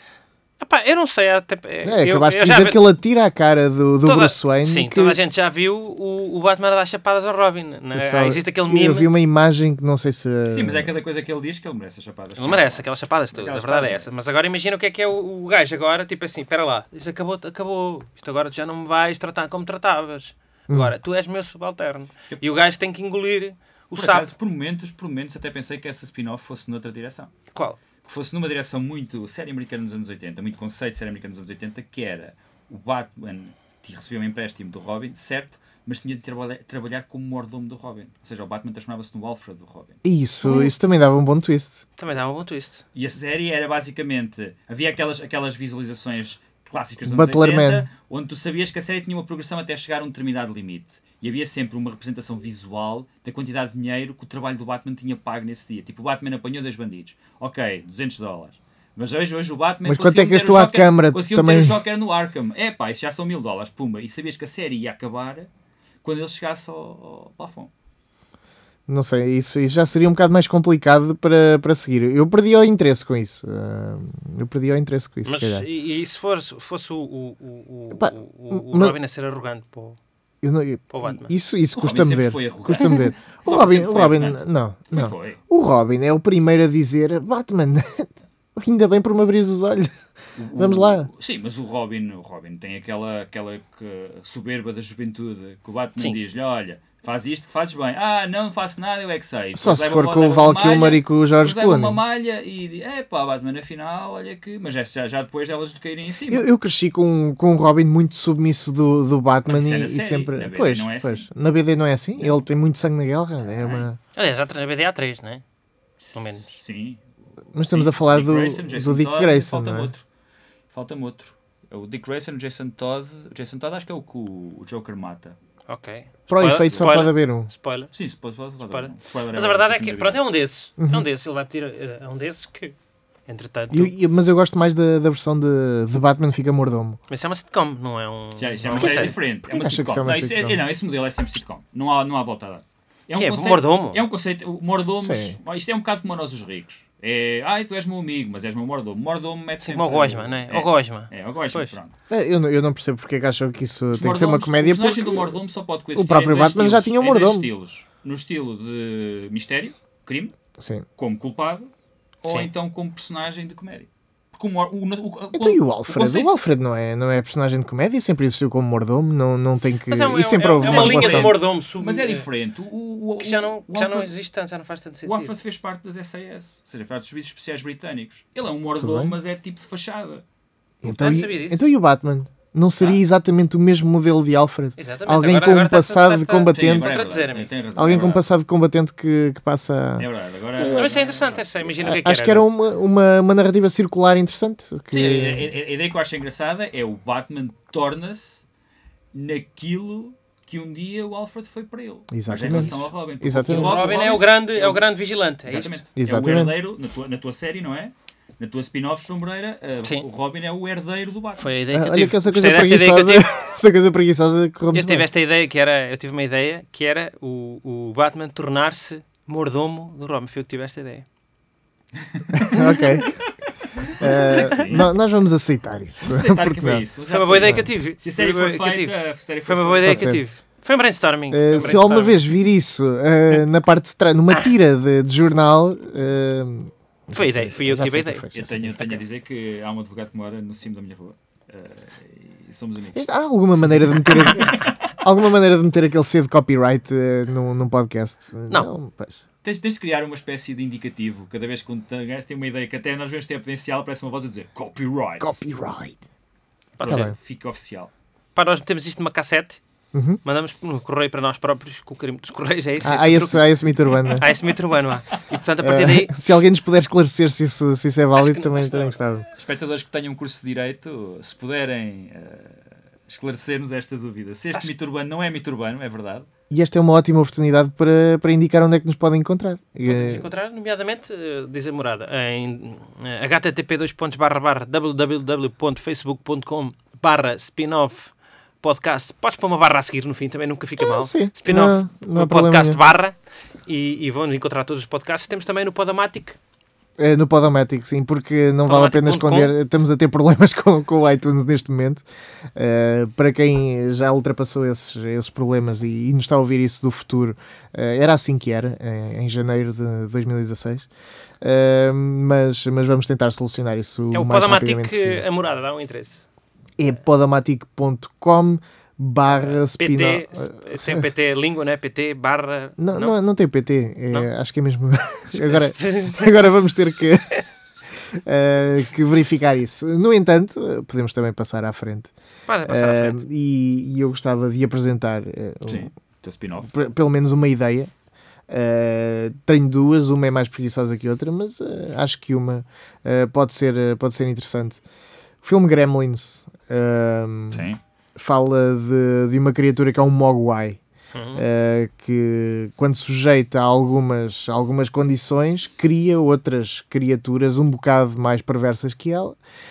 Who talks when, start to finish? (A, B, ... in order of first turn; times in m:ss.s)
0:00.6-0:02.9 A
0:01.8-0:05.2 B
0:04.0-0:09.1 A
0:07.9-0:10.9 B
0:10.5-0:14.2 C
0:12.4-0:24.3 A
0:23.9-0:27.3 C
0:28.0-0:40.0 C
0:40.0-0:41.8 B
0:40.4-0:40.7 A
0:42.0-0:42.8 A
0:42.9-1:05.5 C
0:47.0-0:47.9 B
0:59.8-1:01.8 B
1:06.0-1:07.7 C
1:08.9-1:15.6 B
1:15.2-1:20.0 A
1:17.9-1:19.0 B
1:20.4-1:29.9 B
1:20.9-1:21.3 A
1:21.7-1:25.4 C
1:30.4-1:46.5 C
1:30.5-1:31.1 B
1:39.5-1:42.0 B
1:46.3-1:54.0 B
1:49.4-1:51.3 C
1:52.2-1:52.4 C
1:53.6-1:53.9 C
1:54.1-1:55.4 A
1:56.0-2:00.0 C
1:56.1-1:56.5 A
1:57.5-1:59.9 B
2:00.7-2:05.4 C
2:05.7-2:07.9 A
2:06.3-2:07.5 B
2:06.6-2:06.9 C
2:07.9-2:10.2 C
2:08.6-2:12.7 A
2:10.8-2:11.0 B
2:13.3-2:13.9 A
2:13.7-2:17.0 B
2:17.1-2:19.2 A
2:18.4-2:31.9 C
2:18.8-2:20.6 B
2:23.1-2:24.0 A
2:25.0-2:25.4 B
2:29.6-2:31.7 A
2:32.1-2:35.4 B
2:33.9-2:40.3 C
2:35.9-2:37.5 B
2:40.6-2:40.8 B
2:41.0-2:41.7 C
2:42.2-2:46.4 C
2:42.2-2:42.5 A
2:45.3-2:51.4 B
2:49.9-2:52.3 A
2:50.6-2:54.1 C
2:53.2-2:55.3 A
2:55.0-3:00.2 C
2:58.8-2:59.2 B
3:00.8-3:07.0 B
3:00.8-3:01.6 A
3:04.8-3:07.5 A
3:06.5-3:08.2 C
3:07.8-3:10.0 B
3:10.0-3:11.4 C
3:10.6-3:12.4 A
3:11.8-3:15.5 B
3:14.9-3:18.4 C
3:19.1-3:24.9 C
3:22.1-3:23.8 B
3:23.5-3:25.8 A
3:25.4-3:31.5 C
3:26.0-3:26.6 B
3:31.4-3:33.3 A
3:31.7-3:35.0 B
3:34.7-3:41.0 A
3:42.0-3:42.4 C
3:42.4-3:43.2 B
3:44.0-3:46.8 B
3:44.1-3:44.8 A
3:44.3-3:44.9 C
3:46.0-3:50.2 C
3:47.1-3:52.2 A
3:49.8-3:50.2 B
3:51.3-3:58.8 B
3:51.5-3:52.1 C
3:57.1-3:58.3 A
3:58.3-4:03.0 C
4:02.9-4:09.2 B
4:03.7-4:05.0 C
4:09.4-4:15.4 C
4:15.2-4:16.0 B
4:16.8-4:17.1 A
4:16.8-4:17.9 C
4:16.9-4:17.1 B
4:18.3-4:19.6 A
4:19.9-4:20.2 B
4:20.2-4:26.4 A
4:22.8-4:24.2 B
4:23.9-4:24.4 C
4:25.6-4:29.3 B
4:28.1-4:29.0 A
4:29.3-4:36.3 C
4:36.5-4:40.2 B
4:39.8-4:53.1 A
4:50.8-4:52.8 B
4:53.6-4:56.4 A
4:57.0-5:02.0 B
4:58.6-4:59.5 A
5:02.6-5:10.9 B
5:11.4-5:15.2 B
5:14.1-5:16.2 A
5:16.8-5:21.0 B
5:19.2-5:23.2 A
5:22.8-5:27.4 B
5:25.5-5:26.3 A
5:28.0-5:32.1 B
5:32.5-5:33.2 A
5:32.6-5:35.9 B
5:35.6-5:36.8 C
5:36.7-5:37.9 B
5:38.5-5:44.8 B
5:45.4-5:50.8 B
5:47.5-5:47.8 C
5:51.1-5:51.4 A
5:51.3-5:59.4 B